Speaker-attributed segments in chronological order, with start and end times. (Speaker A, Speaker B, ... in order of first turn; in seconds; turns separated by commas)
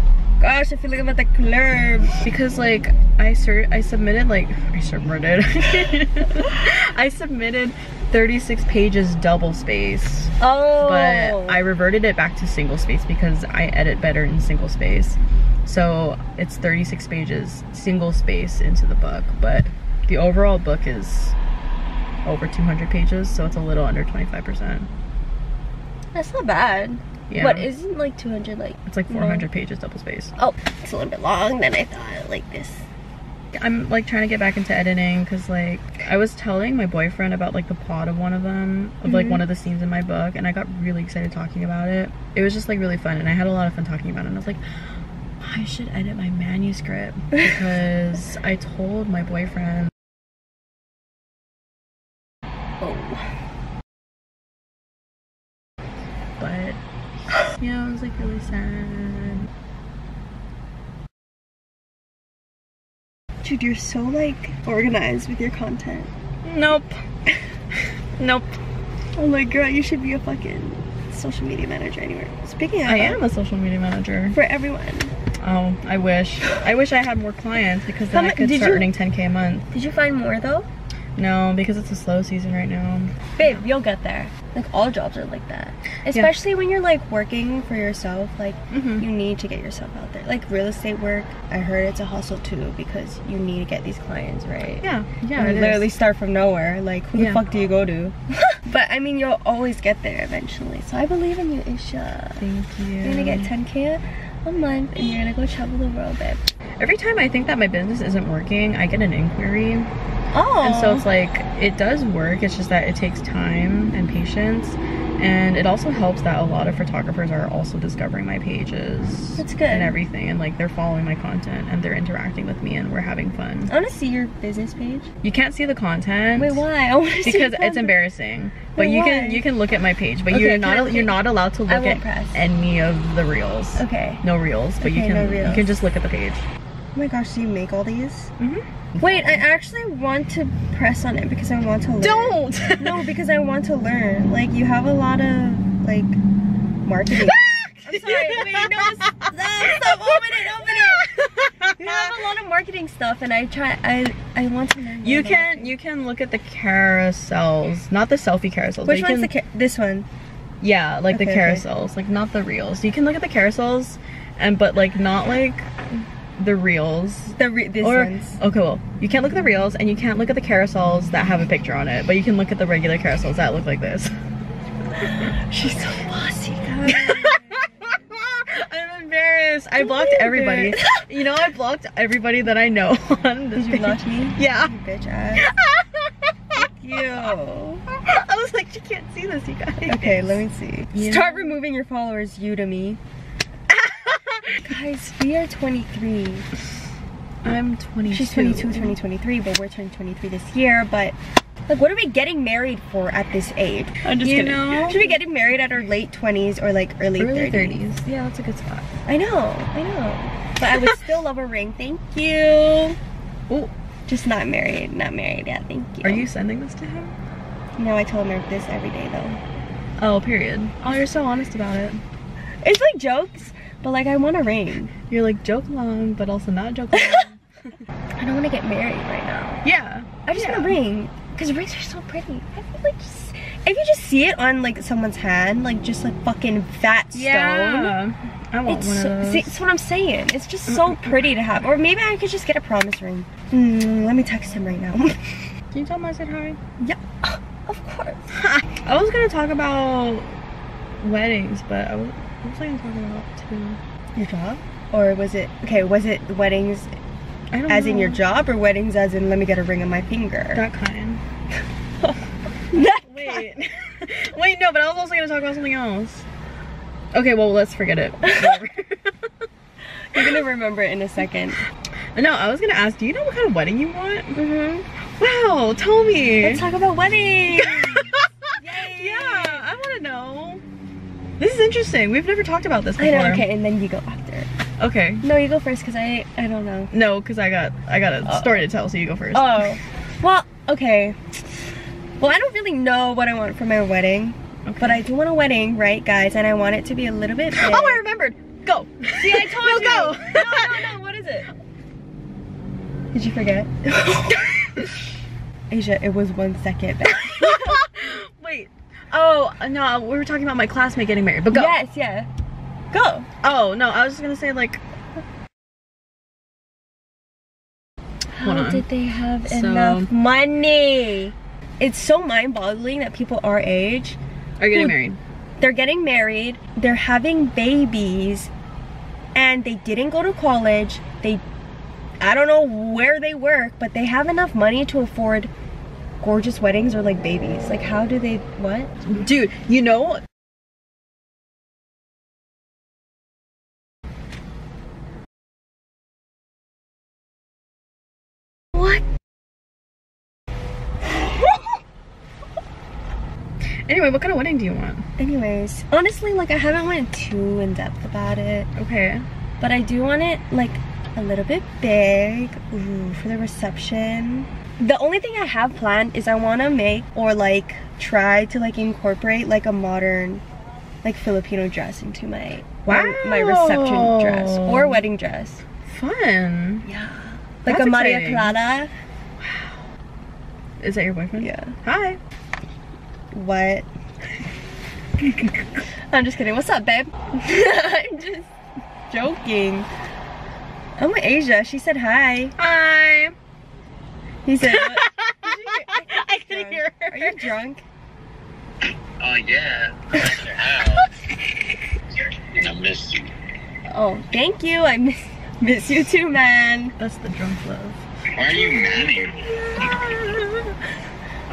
Speaker A: 0.4-2.2, Speaker B: 2.2-21.3, Speaker A: 10.4-11.6, Speaker B: 22.2-24.9, Speaker A: 26.1-29.4, Speaker B: 27.3-27.7, Speaker B: 28.9-30.3, Speaker A: 30.4-32.9, Speaker B: 33.5-44.6, Speaker A: 39.0-39.4, Speaker B: 45.4-49.9, Speaker A: 52.8-53.3, Speaker B: 56.4-59.5, Speaker A: 63.4-66.1, Speaker B: 66.4-67.0, Speaker B: 67.7-68.5, Speaker A: 69.2-73.2, Speaker B: 72.8-74.4, Speaker A: 74.3-75.1, Speaker B: 75.4-79.7, Speaker A: 78.1-78.9, Speaker A: 79.7-80.7, Speaker B: 81.2-83.6, Speaker A: 83.4-102.4, Speaker B: 88.7-89.0, Speaker B: 94.8-95.9, Speaker B: 97.2-97.4, Speaker B: 102.4-103.5, Speaker A: 103.0-106.4, Speaker B: 106.8-109.9, Speaker A: 110.3-111.0, Speaker B: 110.6-123.7, Speaker A: 119.4-119.9, Speaker A: 123.7-125.1, Speaker B: 125.2-126.6, Speaker A: 126.3-128.0, Speaker B: 127.2-136.5, Speaker A: 128.8-129.4, Speaker A: 130.3-132.4, Speaker A: 133.8-134.2, Speaker A: 134.8-135.7, Speaker A: 136.9-138.3, Speaker B: 138.4-139.3, Speaker A: 139.0-146.2, Speaker B: 142.0-143.1, Speaker A: 146.8-151.1, Speaker B: 147.1-152.2, Speaker A: 151.8-155.7, Speaker B: 155.0-159.3, Speaker A: 158.8-160.1, Speaker B: 160.6-174.1, Speaker A: 161.1-161.6, Speaker A: 167.3-168.4, Speaker A: 175.0-177.6, Speaker B: 176.8-184.7, Speaker A: 179.8-181.1, Speaker A: 183.5-185.5, Speaker B: 185.3-187.3, Speaker A: 186.5-187.8, Speaker B: 187.9-191.6, Speaker A: 189.8-193.0, Speaker B: 193.7-194.7, Speaker A: 194.6-196.5, Speaker B: 197.4-199.0, Speaker A: 198.1-201.2, Speaker A: 201.7-207.8, Speaker B: 204.0-205.2, Speaker B: 207.2-208.9, Speaker A: 209.1-213.0, Speaker B: 210.7-211.1, Speaker A: 214.1-216.3, Speaker B: 216.0-217.2, Speaker A: 217.8-219.4, Speaker B: 220.0-222.0, Speaker A: 222.6-224.9, Speaker B: 225.1-227.4, Speaker A: 226.9-227.2, Speaker A: 228.2-229.6, Speaker B: 229.6-230.8, Speaker A: 230.2-237.9, Speaker B: 237.1-239.6, Speaker A: 238.7-245.5, Speaker B: 240.7-241.2, Speaker B: 245.7-246.6, Speaker A: 246.8-248.3, Speaker B: 248.4-250.3, Speaker B: 251.0-253.8, Speaker A: 254.2-256.9, Speaker B: 257.5-258.2, Speaker A: 257.7-260.6, Speaker B: 260.5-261.2, Speaker A: 262.0-263.5, Speaker B: 263.0-266.2, Speaker B: 267.1-269.3, Speaker A: 268.2-268.5, Speaker A: 270.0-271.6, Speaker B: 272.1-274.4, Speaker A: 274.3-274.9, Speaker B: 275.2-276.6, Speaker A: 276.4-279.7, Speaker B: 277.5-280.6, Speaker B: 281.4-283.4, Speaker A: 283.0-284.5, Speaker B: 284.8-285.2, Speaker A: 285.2-286.9, Speaker B: 286.9-289.7, Speaker A: 288.2-288.6, Speaker A: 289.3-291.2, Speaker A: 292.2-298.0, Speaker B: 294.6-295.0, Speaker B: 297.5-300.9, Speaker A: 299.2-301.5, Speaker A: 303.1-304.8, Speaker B: 304.5-304.8, Speaker A: 305.7-307.8, Speaker B: 307.1-311.7, Speaker A: 311.5-312.3, Speaker A: 312.9-313.3, Speaker B: 313.4-314.8, Speaker A: 318.3-324.2, Speaker B: 318.4-318.9, Speaker B: 319.5-320.1, Speaker B: 324.6-325.2, Speaker A: 325.6-328.5, Speaker A: 329.3-331.4, Speaker A: 332.2-335.5, Speaker A: 336.2-338.9, Speaker B: 339.0-340.2, Speaker B: 353.9-355.1, Speaker A: 355.2-358.7, Speaker B: 358.8-359.2, Speaker A: 359.6-370.4, Speaker A: 371.0-375.6, Speaker B: 372.9-375.0, Speaker B: 375.8-376.9, Speaker A: 376.8-378.9, Speaker B: 377.6-378.5, Speaker B: 379.4-379.9, Speaker B: 380.8-382.2, Speaker A: 381.4-381.7, Speaker A: 383.3-383.8, Speaker B: 385.2-385.8, Speaker A: 386.1-388.5, Speaker A: 389.1-389.9, Speaker A: 391.0-392.5, Speaker B: 392.6-393.3, Speaker A: 394.4-397.8, Speaker B: 394.6-397.5, Speaker C: 399.2-401.1, Speaker C: 402.1-403.3, Speaker A: 403.9-406.9, Speaker B: 407.0-410.8, Speaker C: 408.3-410.1